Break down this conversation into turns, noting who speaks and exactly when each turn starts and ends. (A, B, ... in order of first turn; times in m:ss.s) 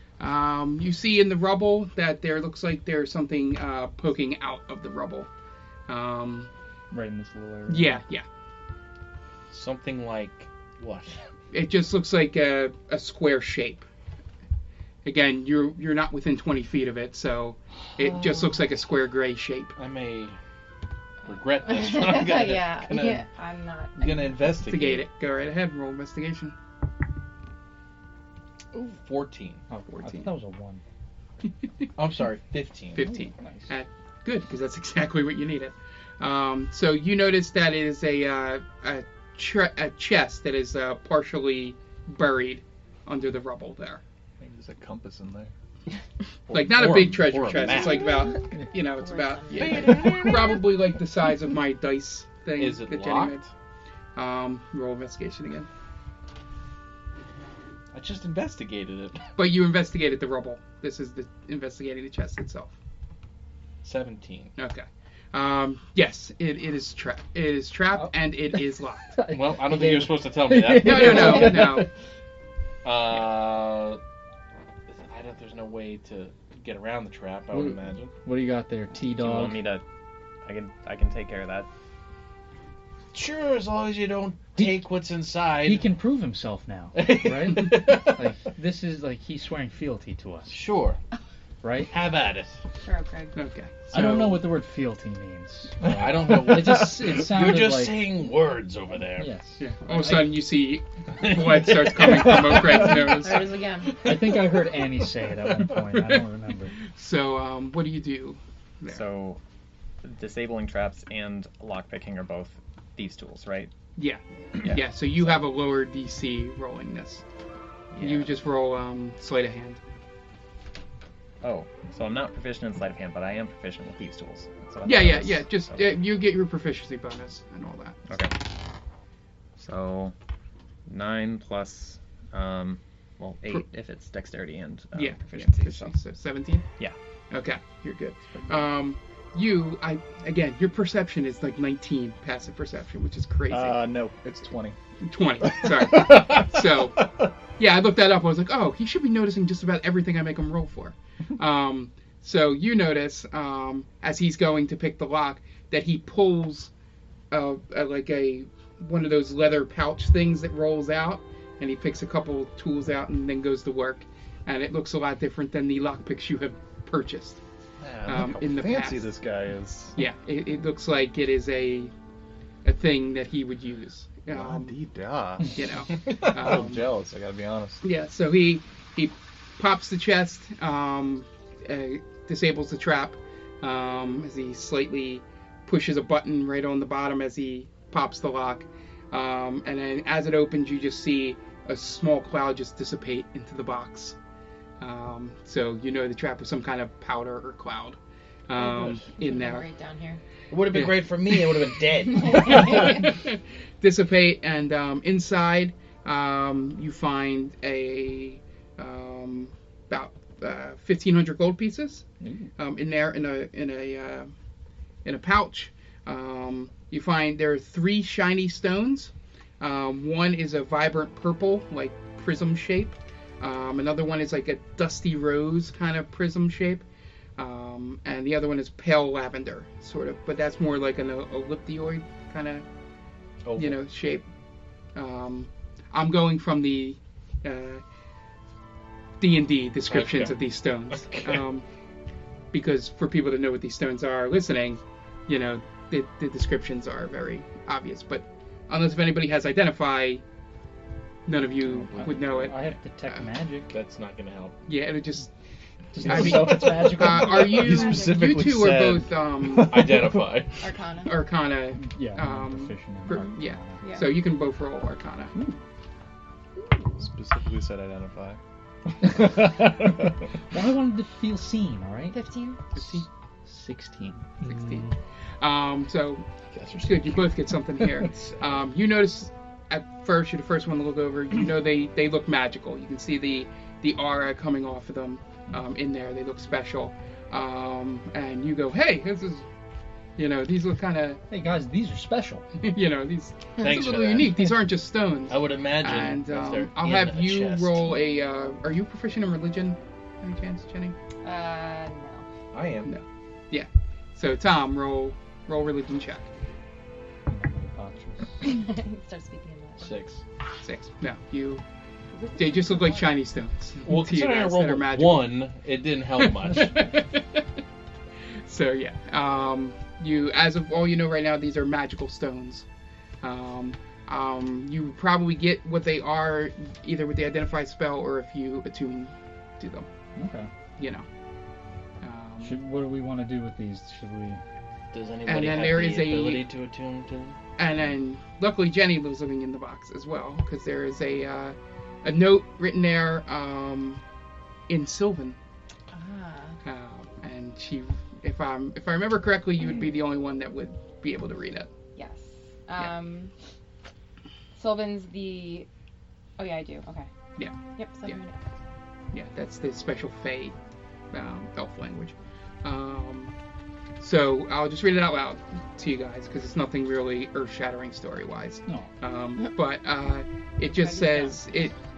0:00.2-0:05.3 A
0:05.9-0:06.5 A
0:06.9-0:08.0 B
0:07.7-0:08.2 A
0:09.5-0:11.2 C
0:11.5-0:13.9 A
0:15.0-0:19.7 A
0:19.8-0:20.4 C
0:21.2-0:23.3 C
0:21.3-0:24.4 D
0:24.0-0:25.1 C
0:24.6-0:26.6 A
0:28.7-0:29.6 C
0:29.7-0:30.8 B
0:29.9-0:30.3 A
0:32.0-0:33.1 C
0:33.0-0:44.0 A
0:33.0-0:33.7 B
0:44.4-0:45.5 E
0:46.5-0:48.3 C
0:46.5-0:53.5 A
0:47.7-0:50.3 D
0:49.5-0:50.8 C
0:52.6-0:53.5 C
0:54.2-0:55.7 A
0:57.9-0:59.3 C
0:59.4-1:02.7 A
1:03.8-1:04.5 C
1:04.6-1:09.2 A
1:09.1-1:11.9 B
1:09.3-1:11.8 C
1:10.8-1:11.9 A
1:12.8-1:14.0 C
1:14.9-1:18.2 C
1:17.5-1:19.6 B
1:19.1-1:19.8 F
1:20.4-1:21.7 F
1:23.1-1:25.9 C
1:24.6-1:24.8 B
1:25.6-1:30.6 B
1:26.9-1:28.3 C
1:30.5-1:31.0 C
1:31.6-1:31.9 B
1:31.8-1:32.6 C
1:32.8-1:33.4 D
1:33.4-1:34.4 A
1:33.9-1:38.0 B
1:35.9-1:39.3 C
1:39.2-1:39.6 B
1:39.6-1:43.5 A
1:39.9-1:40.3 C
1:41.2-1:42.8 C
1:42.8-1:43.9 D
1:44.0-1:46.7 B
1:46.9-1:49.0 A
1:48.9-1:49.4 F
1:50.0-1:53.7 F
1:54.0-1:57.2 A
1:54.6-1:55.4 F
1:57.9-1:58.3 F
1:58.0-1:59.8 A
2:01.4-2:05.9 F
2:04.8-2:08.0 A
2:08.1-2:08.4 F
2:09.6-2:10.1 F
2:10.9-2:15.9 F
2:15.0-2:16.7 A
2:17.3-2:23.8 A
2:23.5-2:24.8 E
2:25.0-2:36.7 A
2:26.0-2:26.4 C
2:37.3-2:47.4 A
2:47.8-2:50.0 E
2:48.1-2:49.1 A
2:50.0-2:51.9 A
2:52.6-2:54.8 A
2:54.3-2:55.6 E
2:55.5-2:56.8 A
2:56.3-2:57.8 E
2:57.8-3:14.2 A
3:14.8-3:19.7 A
3:18.6-3:20.2 D
3:20.5-3:23.0 C
3:20.7-3:21.4 A
3:22.3-3:22.8 D
3:22.4-3:32.0 A
3:32.2-3:32.5 B
3:32.6-3:34.3 A
3:35.0-3:46.8 A
3:47.4-3:52.6 A
3:53.4-3:53.8 C
3:53.6-3:54.2 A
3:55.0-3:57.8 A
3:59.2-4:01.6 A
3:59.9-4:00.4 C
4:01.0-4:01.4 C
4:02.5-4:10.2 A
4:11.3-4:12.5 A
4:11.8-4:13.7 B
4:13.7-4:14.6 C
4:14.7-4:15.3 A
4:15.9-4:17.5 B
4:16.0-4:20.0 A
4:16.1-4:16.7 C
4:17.1-4:18.3 D
4:17.5-4:20.3 E
4:19.6-4:20.6 C
4:20.6-4:21.2 D
4:21.1-4:25.3 A
4:21.8-4:23.8 B
4:23.8-4:24.1 D
4:25.3-4:25.6 B
4:26.6-4:26.9 D
4:27.0-4:28.4 E
4:29.0-4:32.2 B
4:29.1-4:29.9 E
4:32.1-4:32.6 D
4:32.8-4:33.1 A
4:32.8-4:35.0 B
4:34.4-4:36.2 A
4:36.5-4:37.4 C
4:36.8-4:49.4 A
4:50.2-4:51.2 A
4:51.3-4:52.4 B
4:52.6-5:01.0 A
4:53.6-4:54.4 C
4:55.3-4:57.9 C
5:01.2-5:02.3 D
5:02.5-5:02.9 C
5:02.8-5:06.3 A
5:07.3-5:08.5 B
5:08.4-5:09.9 D
5:09.8-5:10.2 C
5:10.6-5:11.6 A
5:12.1-5:13.1 D
5:12.4-5:15.5 A
5:13.8-5:16.8 C
5:16.2-5:17.5 A
5:18.4-5:22.6 A
5:23.2-5:29.9 A
5:30.2-5:30.5 B
5:30.8-5:31.1 A
5:32.0-5:32.6 A
5:32.4-5:34.4 B
5:34.9-5:37.4 C
5:35.3-5:36.5 A
5:37.6-5:44.0 A
5:44.7-5:45.4 A
5:45.9-5:46.6 D
5:46.6-5:51.7 A
5:52.0-5:53.3 D
5:54.6-5:55.7 D
5:56.4-5:57.1 D
5:57.4-5:58.2 A
5:57.8-5:58.4 D
5:59.1-6:00.6 A
6:01.1-6:03.3 A
6:04.0-6:11.8 A
6:10.7-6:11.4 D